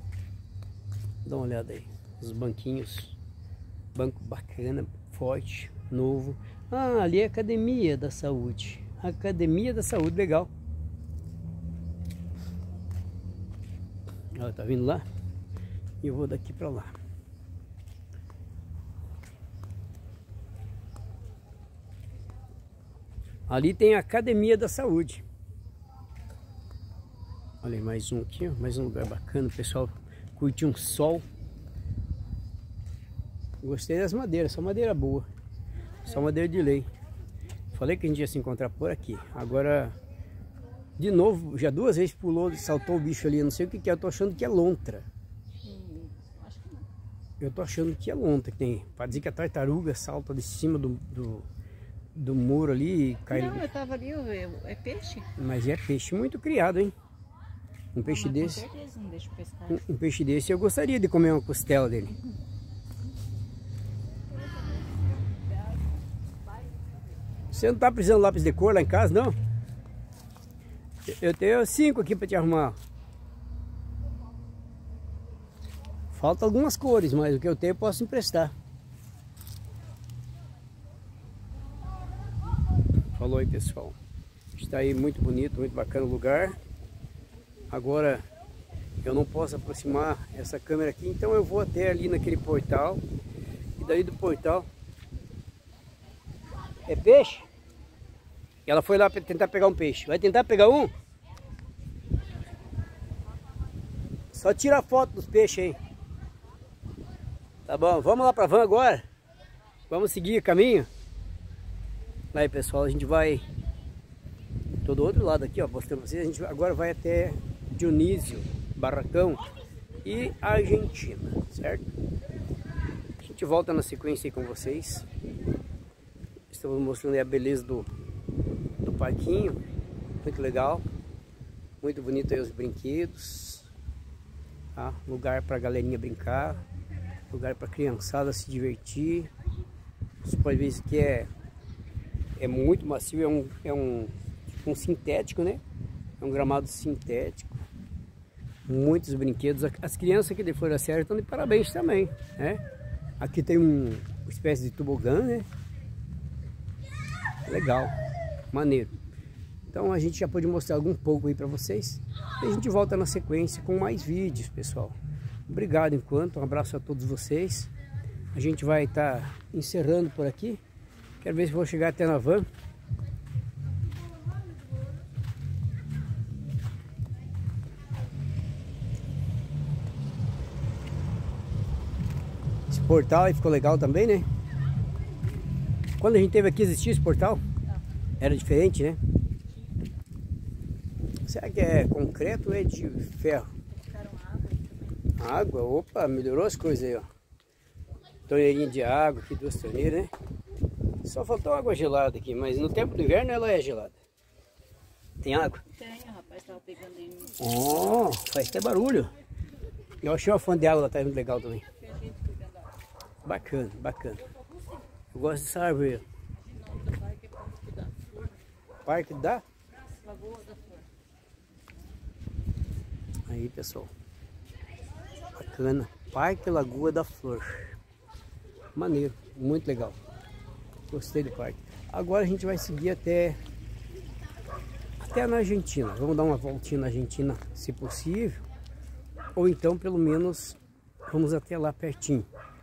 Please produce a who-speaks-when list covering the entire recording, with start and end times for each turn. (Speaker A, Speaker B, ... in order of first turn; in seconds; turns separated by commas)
Speaker A: 1.2-3.2, Speaker A: 3.9-10.5, Speaker A: 14.3-15.0, Speaker A: 16.0-16.9, Speaker A: 23.5-25.2, Speaker A: 27.6-31.2, Speaker A: 33.6-35.3, Speaker A: 36.0-36.9, Speaker A: 37.7-40.0, Speaker A: 41.0-45.0, Speaker B: 45.6-46.9, Speaker A: 47.4-51.5, Speaker A: 52.1-53.6, Speaker B: 53.3-55.3, Speaker A: 55.4-56.9, Speaker A: 57.9-58.6, Speaker B: 58.0-59.8, Speaker A: 59.7-62.1, Speaker A: 67.5-69.3, Speaker A: 71.1-72.8, Speaker A: 76.1-78.5, Speaker A: 83.1-84.0, Speaker A: 84.5-86.5, Speaker A: 87.7-88.2, Speaker A: 89.0-93.0, Speaker A: 93.8-94.7, Speaker A: 96.9-97.5, Speaker A: 98.7-100.9, Speaker A: 104.3-105.8, Speaker A: 107.7-109.0, Speaker A: 109.9-110.9, Speaker A: 112.3-113.4, Speaker A: 114.8-119.4, Speaker A: 120.0-121.8, Speaker A: 123.2-125.1, Speaker A: 126.5-127.9, Speaker A: 128.8-129.6, Speaker A: 130.2-130.8, Speaker A: 131.8-133.7, Speaker A: 134.7-136.6, Speaker A: 137.3-139.3, Speaker A: 140.2-141.3, Speaker A: 142.4-145.6, Speaker A: 146.2-147.6, Speaker A: 148.7-152.6, Speaker A: 153.2-155.5, Speaker A: 157.4-157.9, Speaker A: 158.5-158.9, Speaker A: 159.7-164.9, Speaker A: 165.5-167.7, Speaker A: 168.3-170.6, Speaker A: 171.2-172.4, Speaker A: 182.7-184.2, Speaker A: 186.0-187.4, Speaker A: 188.2-189.0, Speaker A: 191.2-193.5, Speaker B: 193.8-195.0, Speaker A: 195.1-197.1, Speaker A: 198.3-200.1, Speaker A: 201.0-203.9, Speaker A: 205.2-205.6, Speaker B: 205.7-207.4, Speaker A: 207.4-209.1, Speaker A: 210.0-211.6, Speaker B: 211.8-212.6, Speaker A: 213.2-214.2, Speaker A: 215.1-216.0, Speaker B: 216.6-218.1, Speaker A: 218.8-219.4, Speaker B: 220.0-220.8, Speaker A: 223.3-223.9, Speaker A: 225.3-227.7, Speaker A: 228.7-230.0, Speaker A: 230.9-233.4, Speaker A: 235.0-238.4, Speaker A: 239.3-242.3